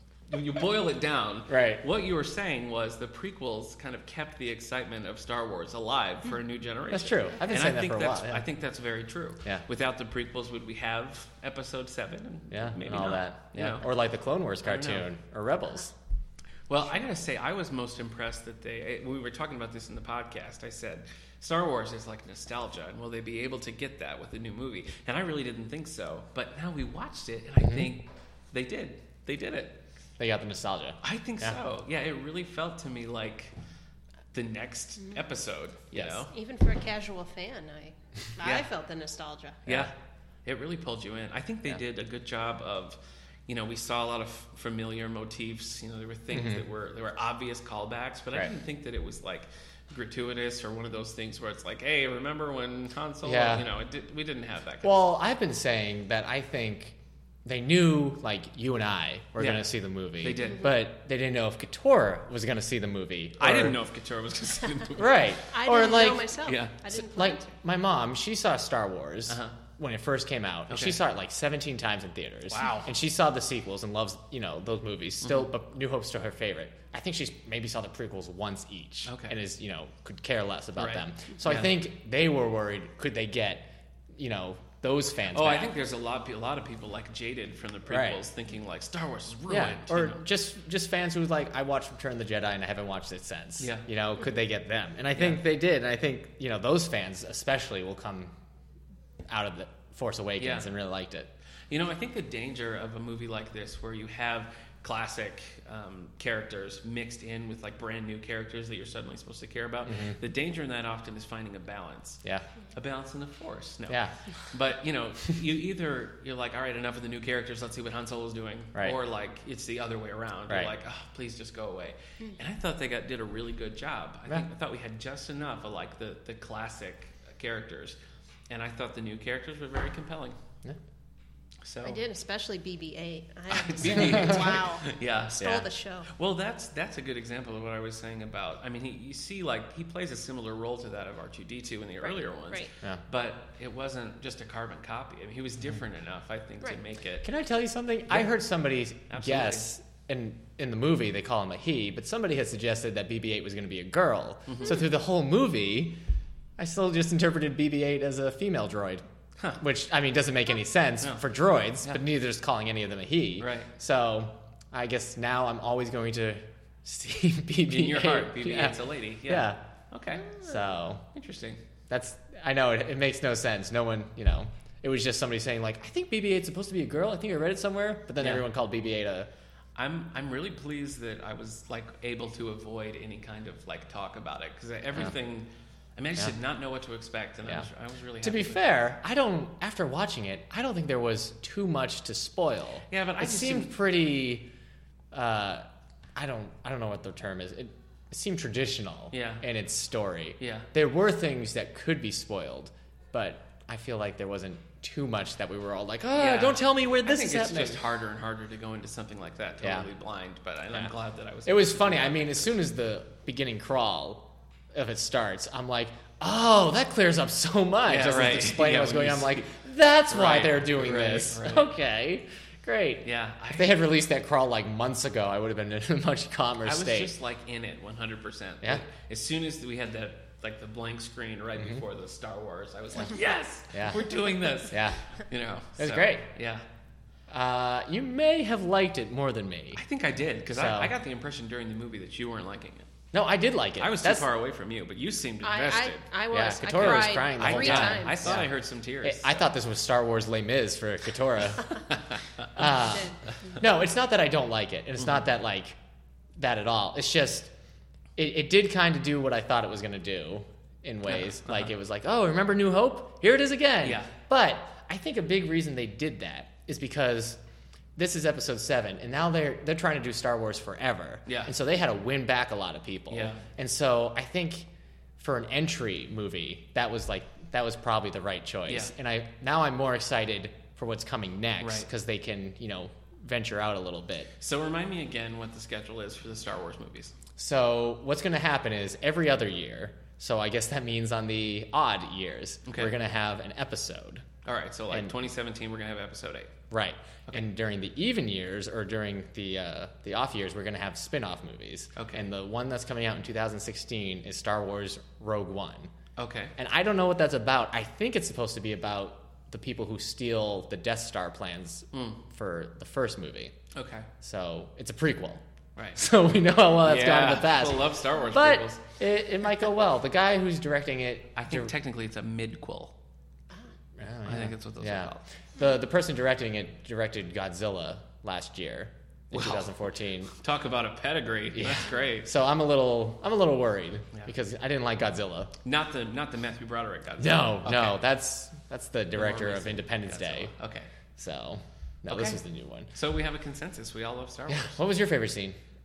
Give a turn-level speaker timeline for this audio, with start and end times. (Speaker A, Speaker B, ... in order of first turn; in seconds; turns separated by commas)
Speaker A: 0.3-13.9, Speaker B: 1.5-1.8, Speaker B: 6.9-8.4, Speaker B: 12.5-15.9, Speaker A: 14.6-15.1, Speaker A: 16.7-29.8, Speaker B: 27.6-27.9, Speaker B: 30.2-31.6, Speaker A: 31.0-33.5, Speaker A: 34.3-36.3, Speaker B: 35.9-36.2, Speaker C: 36.3-39.6, Speaker B: 39.6-39.9, Speaker A: 39.6-39.9, Speaker A: 40.5-55.0, Speaker B: 46.3-46.6, Speaker B: 53.2-53.7, Speaker B: 54.8-63.8, Speaker A: 59.4-59.7, Speaker A: 60.2-60.7, Speaker A: 63.4-65.1, Speaker B: 64.9-66.4, Speaker C: 65.5-67.5, Speaker A: 66.4-66.7, Speaker B: 66.9-85.7, Speaker A: 69.3-69.6, Speaker A: 70.7-71.0, Speaker A: 72.5-72.9, Speaker A: 75.2-75.5, Speaker A: 79.1-79.3, Speaker A: 80.8-81.8, Speaker A: 85.3-90.2, Speaker B: 87.9-88.2, Speaker B: 89.5-98.3, Speaker A: 93.6-93.8, Speaker A: 95.2-95.4, Speaker B: 99.3-101.3, Speaker A: 100.4-100.7, Speaker A: 101.7-112.2, Speaker B: 109.8-110.2, Speaker A: 112.7-128.0, Speaker B: 113.9-114.1, Speaker A: 128.5-130.3, Speaker A: 131.6-132.0, Speaker C: 131.8-136.1, Speaker A: 133.5-147.2, Speaker B: 134.0-134.5, Speaker C: 142.0-142.7, Speaker B: 147.2-156.0, Speaker A: 149.1-149.7, Speaker A: 154.5-154.8, Speaker B: 156.6-159.0, Speaker B: 159.6-169.6, Speaker A: 163.4-163.7, Speaker A: 167.7-170.3, Speaker B: 170.3-171.0, Speaker A: 171.1-171.6, Speaker B: 171.9-179.3, Speaker A: 179.7-188.8, Speaker B: 188.2-194.5, Speaker A: 192.9-193.7, Speaker B: 195.1-207.8, Speaker A: 199.1-199.4, Speaker A: 200.4-200.7, Speaker A: 206.1-212.6, Speaker B: 209.6-209.9, Speaker B: 211.4-227.1, Speaker A: 217.9-219.5, Speaker A: 220.1-221.7, Speaker A: 223.0-223.9, Speaker A: 226.6-236.6, Speaker B: 231.6-231.8, Speaker B: 233.7-234.0, Speaker B: 234.7-235.0, Speaker B: 235.8-236.3, Speaker B: 237.3-239.8, Speaker A: 239.8-242.9, Speaker B: 240.5-240.9, Speaker B: 243.1-244.3, Speaker A: 243.8-246.0, Speaker C: 245.4-248.4, Speaker B: 246.3-248.5, Speaker A: 246.7-249.5, Speaker B: 249.0-251.8, Speaker B: 252.5-255.8, Speaker C: 252.8-253.5, Speaker B: 256.4-257.5, Speaker B: 258.1-267.4, Speaker A: 261.2-261.7, Speaker A: 263.8-264.1, Speaker B: 267.9-284.3, Speaker A: 271.3-271.5, Speaker A: 273.1-273.4, Speaker A: 281.6-281.9, Speaker A: 284.4-287.1, Speaker B: 287.4-294.3, Speaker A: 292.7-292.9, Speaker A: 294.4-296.5, Speaker B: 296.7-305.9, Speaker A: 301.9-302.2, Speaker A: 306.2-306.5, Speaker B: 306.6-313.5, Speaker A: 311.9-312.2, Speaker A: 313.7-314.1, Speaker B: 314.2-315.4, Speaker B: 315.9-321.7, Speaker A: 316.8-318.8, Speaker A: 321.4-322.9, Speaker B: 324.0-330.3, Speaker A: 324.2-325.2, Speaker A: 329.3-329.7, Speaker A: 330.4-332.3, Speaker B: 331.5-335.5, Speaker A: 335.6-338.0, Speaker B: 337.2-340.5, Speaker A: 339.1-340.9, Speaker B: 341.2-342.9, Speaker A: 342.1-342.4, Speaker A: 342.9-344.8, Speaker B: 344.5-345.6